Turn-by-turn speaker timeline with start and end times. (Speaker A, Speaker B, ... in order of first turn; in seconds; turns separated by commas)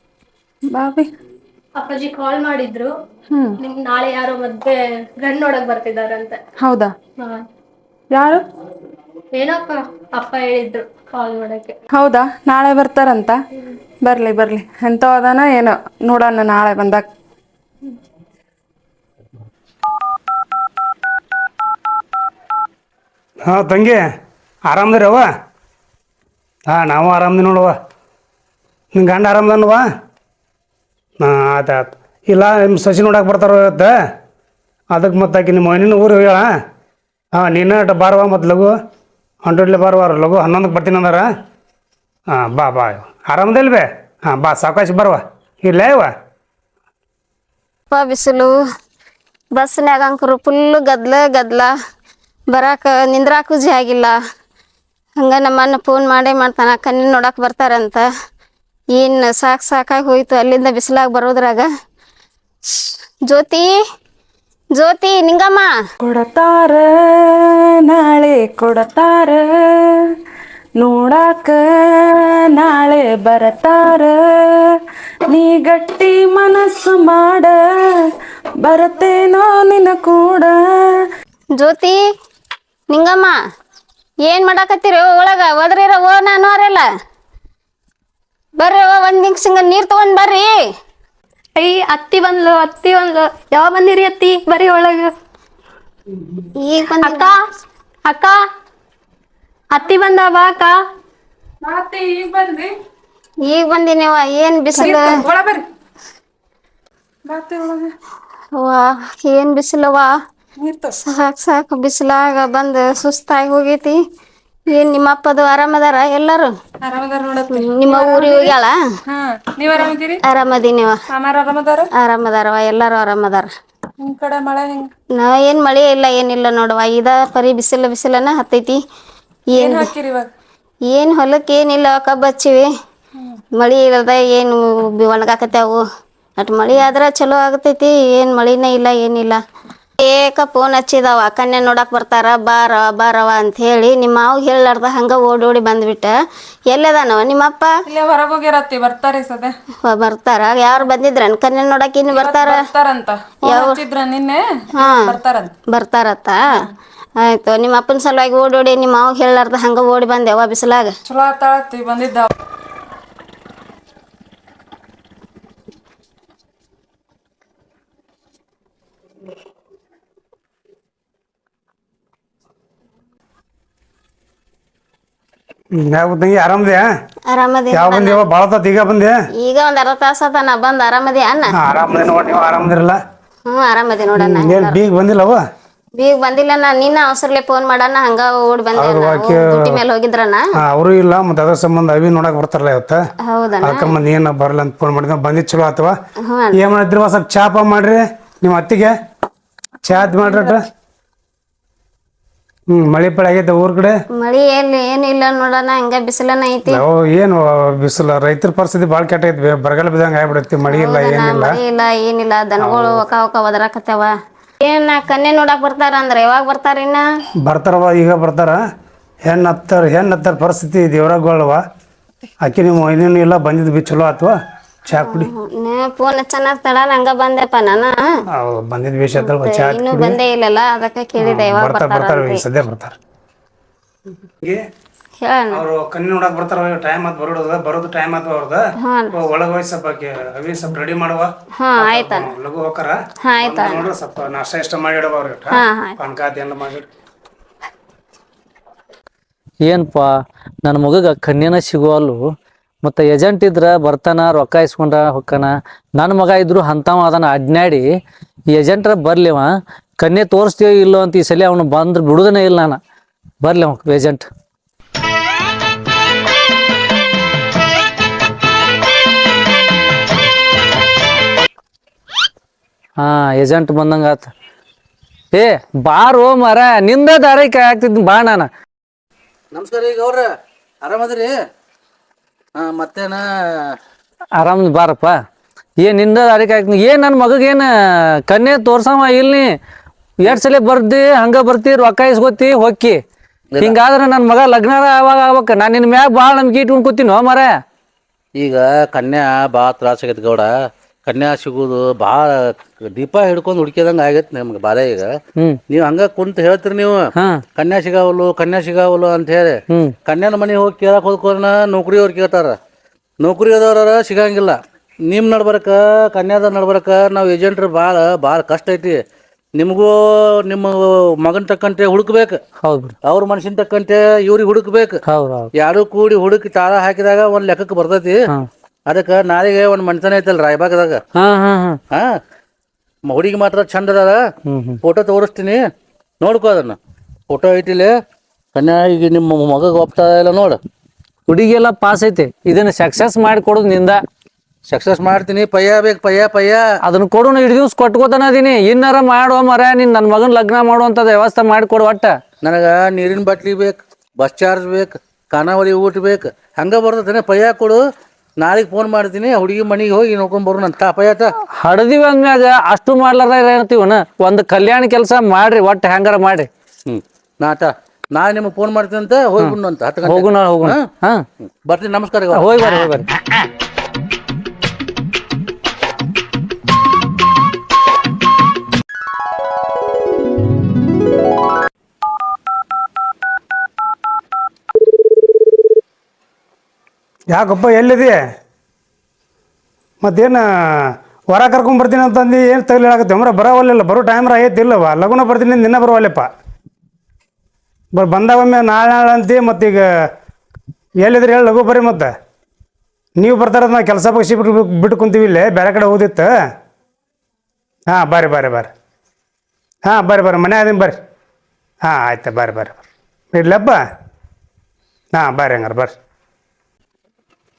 Speaker A: 0.7-1.1, Speaker B: 1.8-2.9, Speaker B: 3.6-6.4, Speaker A: 6.6-6.9, Speaker A: 8.1-8.4, Speaker B: 9.3-11.8, Speaker A: 11.9-13.3, Speaker A: 14.0-17.1, Speaker C: 23.4-24.0, Speaker C: 24.7-25.3, Speaker C: 26.7-27.7, Speaker C: 28.9-29.9, Speaker C: 31.2-33.9, Speaker C: 34.9-36.5, Speaker C: 37.3-38.7, Speaker C: 39.4-41.3, Speaker C: 42.3-46.1, Speaker D: 47.9-48.5, Speaker D: 49.5-51.7, Speaker D: 52.5-54.1, Speaker D: 55.2-58.0, Speaker D: 59.0-61.7, Speaker D: 62.8-63.7, Speaker D: 64.8-65.7, Speaker A: 66.0-70.0, Speaker A: 70.8-74.7, Speaker A: 75.3-77.8, Speaker A: 78.6-80.6, Speaker D: 81.6-82.0, Speaker D: 82.9-83.3, Speaker D: 84.3-86.8, Speaker D: 88.6-90.5, Speaker B: 91.5-95.1, Speaker D: 96.6-97.3, Speaker B: 97.0-97.3, Speaker B: 98.0-98.3, Speaker B: 99.7-100.8, Speaker A: 101.6-102.7, Speaker D: 103.5-105.2, Speaker A: 104.7-105.7, Speaker A: 107.3-107.9, Speaker D: 108.5-110.1, Speaker A: 110.6-111.0, Speaker D: 111.0-114.0, Speaker D: 114.7-116.5, Speaker A: 116.8-118.5, Speaker D: 117.5-118.7, Speaker A: 119.1-120.2, Speaker D: 120.2-121.0, Speaker A: 121.1-121.9, Speaker D: 122.0-123.5, Speaker A: 124.0-124.9, Speaker D: 125.2-128.8, Speaker D: 129.5-129.8, Speaker A: 129.6-130.3, Speaker D: 130.9-132.7, Speaker D: 133.6-135.8, Speaker D: 136.4-139.4, Speaker D: 140.0-146.1, Speaker D: 146.7-147.7, Speaker A: 147.9-149.5, Speaker D: 149.8-152.7, Speaker A: 152.1-155.5, Speaker D: 153.4-153.8, Speaker D: 154.8-155.2, Speaker D: 155.7-156.5, Speaker D: 157.2-160.9, Speaker A: 161.1-162.3, Speaker C: 175.8-176.9, Speaker D: 177.3-178.2, Speaker C: 177.7-179.2, Speaker D: 179.4-181.5, Speaker C: 181.6-183.0, Speaker D: 183.5-184.8, Speaker C: 184.2-185.4, Speaker D: 186.0-190.4, Speaker C: 188.8-189.8, Speaker C: 190.6-193.0, Speaker D: 193.2-193.9, Speaker C: 193.6-195.9, Speaker D: 196.3-196.6, Speaker C: 196.6-198.9, Speaker C: 199.8-200.6, Speaker C: 202.7-203.9, Speaker D: 204.2-206.8, Speaker C: 206.7-211.6, Speaker D: 210.7-214.1, Speaker C: 212.6-213.0, Speaker D: 214.6-217.0, Speaker C: 217.4-218.6, Speaker C: 219.3-221.6, Speaker C: 222.4-224.3, Speaker C: 224.9-225.3, Speaker D: 224.9-228.0, Speaker C: 228.3-230.2, Speaker D: 229.2-232.4, Speaker C: 231.2-232.9, Speaker D: 235.2-235.6, Speaker C: 235.5-238.6, Speaker D: 238.8-239.1, Speaker C: 239.1-246.8, Speaker D: 241.6-242.3, Speaker D: 243.2-243.9, Speaker D: 245.5-245.9, Speaker E: 249.7-250.1, Speaker E: 250.6-252.2, Speaker E: 252.8-257.8, Speaker E: 258.5-259.4, Speaker E: 260.0-262.8, Speaker E: 263.4-264.2, Speaker E: 273.0-274.3, Speaker E: 275.3-278.5, Speaker F: 279.5-280.3, Speaker F: 280.8-281.3, Speaker F: 282.6-283.7, Speaker E: 284.4-285.1, Speaker E: 285.8-287.7, Speaker E: 288.3-289.5, Speaker E: 290.2-293.0, Speaker E: 293.6-297.5, Speaker F: 298.4-300.5, Speaker F: 301.1-305.1, Speaker F: 305.7-307.0, Speaker F: 307.6-312.6, Speaker F: 313.2-319.0, Speaker F: 319.5-322.4, Speaker E: 322.6-322.9, Speaker F: 323.0-325.0, Speaker E: 325.1-325.5, Speaker F: 325.5-328.1, Speaker F: 328.9-331.0, Speaker E: 331.1-331.8, Speaker F: 333.1-334.2, Speaker E: 334.5-334.8, Speaker F: 334.8-335.6, Speaker F: 336.2-336.8, Speaker F: 337.3-337.9, Speaker F: 338.5-340.6, Speaker E: 341.3-344.0, Speaker F: 344.7-346.6, Speaker E: 346.8-352.1, Speaker F: 352.4-357.8, Speaker F: 358.4-361.3, Speaker E: 361.6-366.5, Speaker F: 366.9-370.8, Speaker E: 369.4-371.2, Speaker F: 371.4-372.9, Speaker E: 372.3-373.1, Speaker C: 387.3-388.2, Speaker C: 390.0-396.3, Speaker C: 397.9-399.8, Speaker C: 401.0-402.1, Speaker C: 403.2-406.3, Speaker C: 407.9-408.7, Speaker C: 409.9-411.0, Speaker C: 411.8-412.8, Speaker C: 413.3-413.8, Speaker C: 415.1-415.9